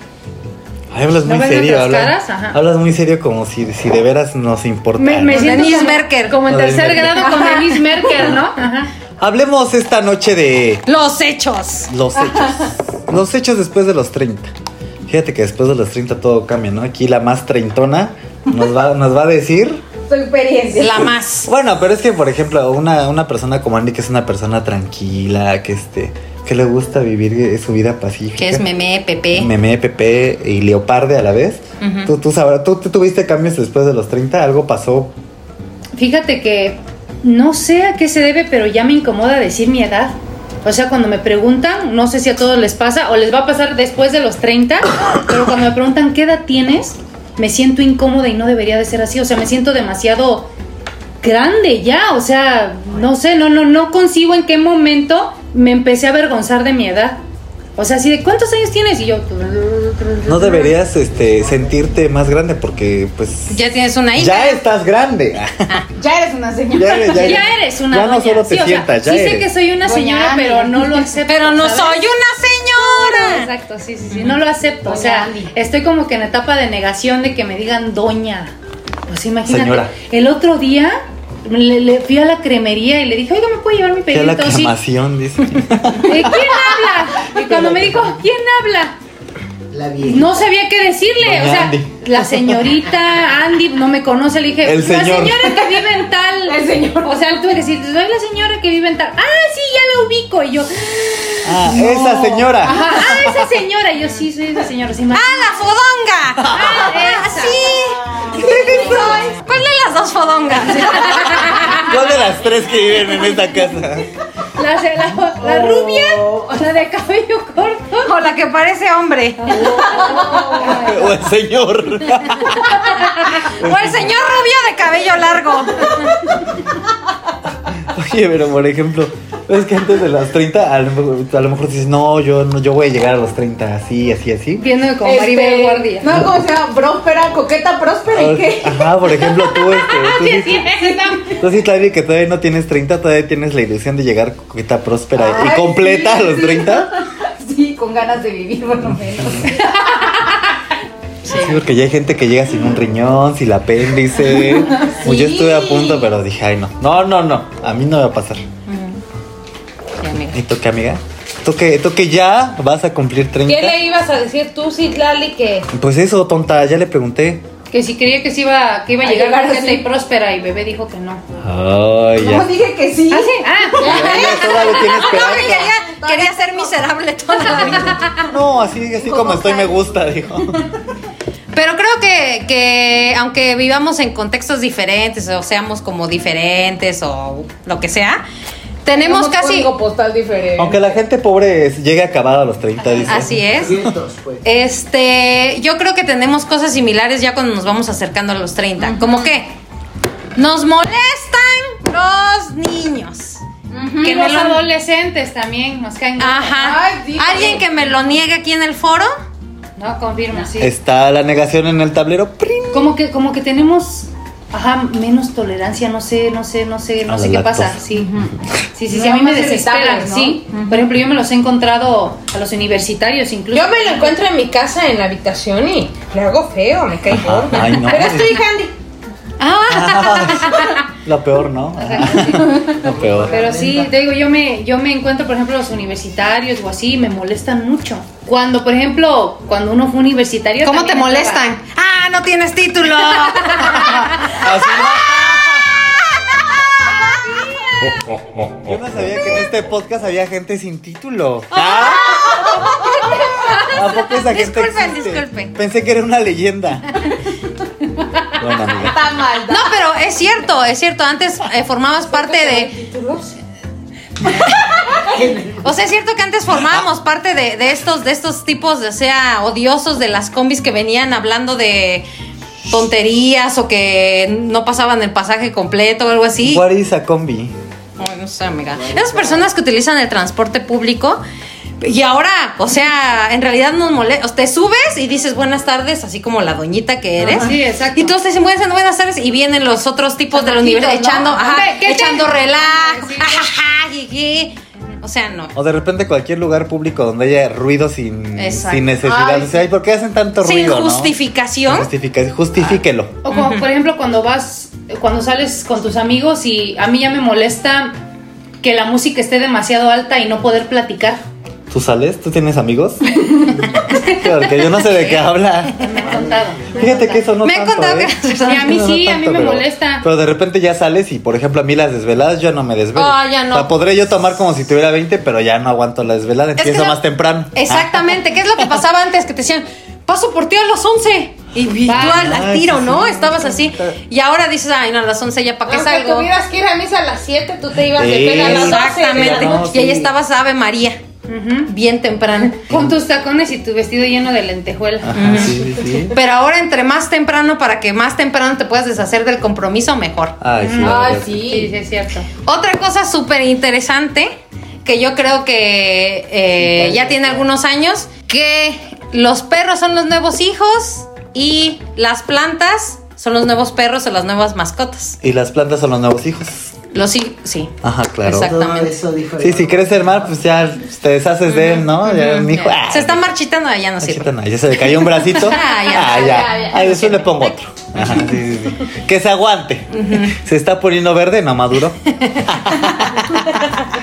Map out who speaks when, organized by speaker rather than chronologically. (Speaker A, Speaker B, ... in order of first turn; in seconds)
Speaker A: 0.9-5.8, 6.4-7.4, 9.2-10.8, 11.9-14.5, 15.1-19.8, 20.9-28.6, 29.3-35.1, 60.2-63.6, 64.1-65.8, 66.7-69.5, 79.5-79.9, 84.1-86.5, 87.4-88.0, 91.2-92.6, 94.6-95.7, 101.4-103.5, 106.4-106.8, 108.3-109.3, 111.7-114.1, 120.7-122.8, 123.4-124.2, 127.7-134.7, 138.1-140.8, 141.3-146.9, 149.1-149.5, 151.3-158.4, 160.3-163.8, 165.7-167.4, 171.4-172.5, 173.8-175.7, 178.2-180.6, 190.6-193.9, 210.6-212.9, 217.1-217.8, 227.1-228.4, 229.7-233.4, 243.8-245.7, 248.5-252.3, 253.7-257.1, 258.3-259.0, 266.5-266.9, 276.4-277.5, 295.5-303.2, 311.7-316.0, 316.7-328.2, 331.9-334.0, 337.9-340.1, 342.7-343.0, 345.0-346.1, 350.4-351.4, 356.7-357.3, 365.2-366.7, 367.8-368.5, 369.4-373.3, 374.0-383.4
Speaker B: 1.2-2.6, 5.0-8.9, 35.9-50.5, 51.2-57.2, 57.8-60.7, 67.1-72.1, 72.8-78.5, 79.1-84.7, 86.0-89.0, 90.0-105.5, 106.5-107.8, 114.5-118.1, 119.4-121.1, 134.6-136.1, 139.8-141.4, 149.7-150.0, 167.7-171.2, 173.1-174.2, 204.0-206.6, 209.8-210.7, 212.7-224.2, 231.8-232.7, 233.3-241.4, 243.3-244.0, 287.2-288.1, 290.3-293.5, 303.2-308.0, 308.6-311.2, 313.3-314.9, 315.8-317.3, 318.4-320.1, 331.9-332.3, 341.3-341.7, 342.7-345.9, 350.6-352.3
Speaker C: 5.3-6.4, 10.8-11.9, 20.8-21.5, 28.4-29.5, 31.8-32.1, 63.5-64.6, 71.3-73.5, 74.1-74.4, 105.1-111.9, 118.0-119.8, 122.6-126.3, 151.2-151.6, 158.7-159.0, 160.0-160.4, 174.0-178.3, 181.5-188.2, 188.8-189.7, 193.0-193.8, 194.4-199.5, 200.3-203.4, 204.0-204.6, 206.2-209.1, 229.4-230.8, 240.6-248.0, 251.5-255.5, 259.5-262.7, 264.2-265.1, 265.6-272.1, 272.7-276.6, 278.0-281.2, 281.8-295.5, 298.4-298.9, 300.4-301.9, 303.3-303.6, 317.4-318.8, 322.9-323.7, 326.6-327.0, 327.5-336.3, 338.3-341.0, 341.7-342.7, 345.1-350.4, 352.4-365.2, 366.9-368.9, 371.5-378.1, 379.9-380.4, 382.1-383.8
Speaker D: 7.1-8.1, 12.2-12.7, 20.1-21.0, 66.0-67.4, 69.8-71.2, 74.8-75.5, 96.4-97.2, 102.7-103.0, 108.4-109.2, 119.9-120.7, 135.0-140.0, 140.6-141.3, 145.2-150.2, 154.4-156.1, 163.4-165.7, 169.0-169.8, 172.2-177.9, 179.0-179.8, 188.9-190.8, 198.8-199.2, 203.7-204.2, 206.6-207.6, 218.9-220.9, 223.5-228.7, 232.3-232.7, 252.1-252.9, 258.8-259.7, 262.1-263.4, 299.0-299.6, 335.7-339.7, 350.7-351.8, 375.9-377.0
Speaker E: 89.7-90.4, 115.4-116.5, 193.1-194.4, 232.6-233.9, 265.0-265.7, 278.8-279.4, 368.3-370.3